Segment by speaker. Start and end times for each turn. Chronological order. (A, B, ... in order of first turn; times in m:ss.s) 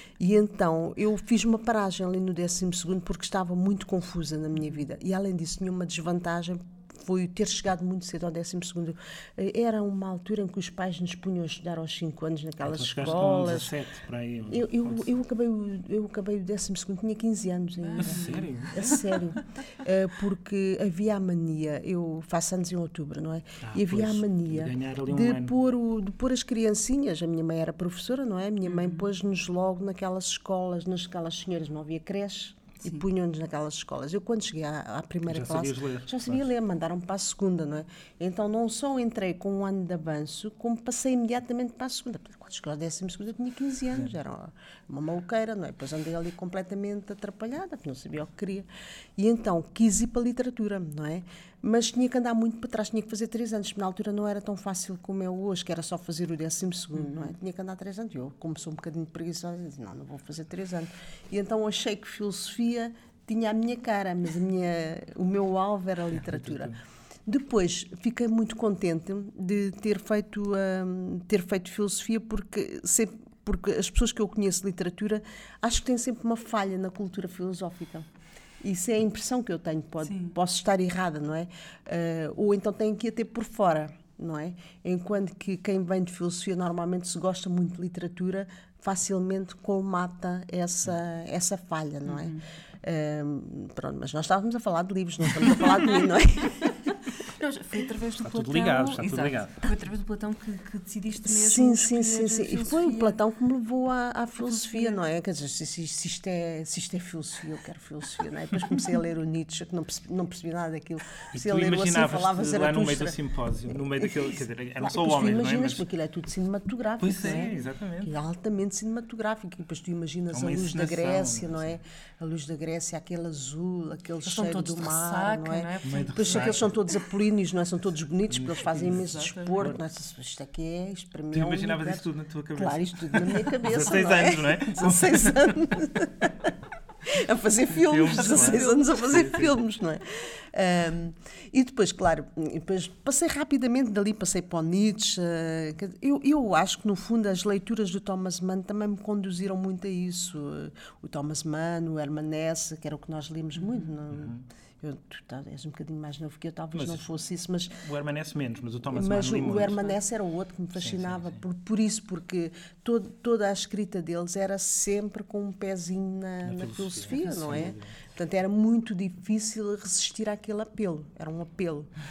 0:00.2-0:13.7 A
0:12.6-0:15.1 B
0:14.5-1:06.7 A
0:17.8-0:18.9 C
0:18.0-0:19.1 B
0:23.6-0:25.6 B
0:28.7-0:29.1 C
0:35.3-0:36.5 B
0:57.0-0:57.3 C
1:06.1-1:06.8 B
1:07.3-1:18.1 A
1:18.6-1:36.8 A
1:20.0-1:20.4 C
1:32.1-1:32.4 C
1:37.4-1:43.2 C
1:38.2-1:39.7 B
1:41.3-1:53.2 A
1:44.4-1:45.0 C
1:51.3-1:55.8 B
1:53.7-2:16.5 A
1:57.0-1:58.1 B
1:57.2-1:57.5 C
2:00.3-2:01.8 B
2:04.3-2:06.8 C
2:05.8-2:06.7 B
2:08.3-2:09.8 B
2:08.7-2:09.6 C
2:11.3-2:15.5 B
2:17.0-2:37.8 A
2:17.7-2:19.6 B
2:18.1-2:18.9 C
2:34.1-2:34.4 B
2:36.7-2:37.0 B
2:37.8-2:39.9 B
2:38.9-2:51.9 A
2:40.8-2:41.4 B
2:46.4-2:48.0 B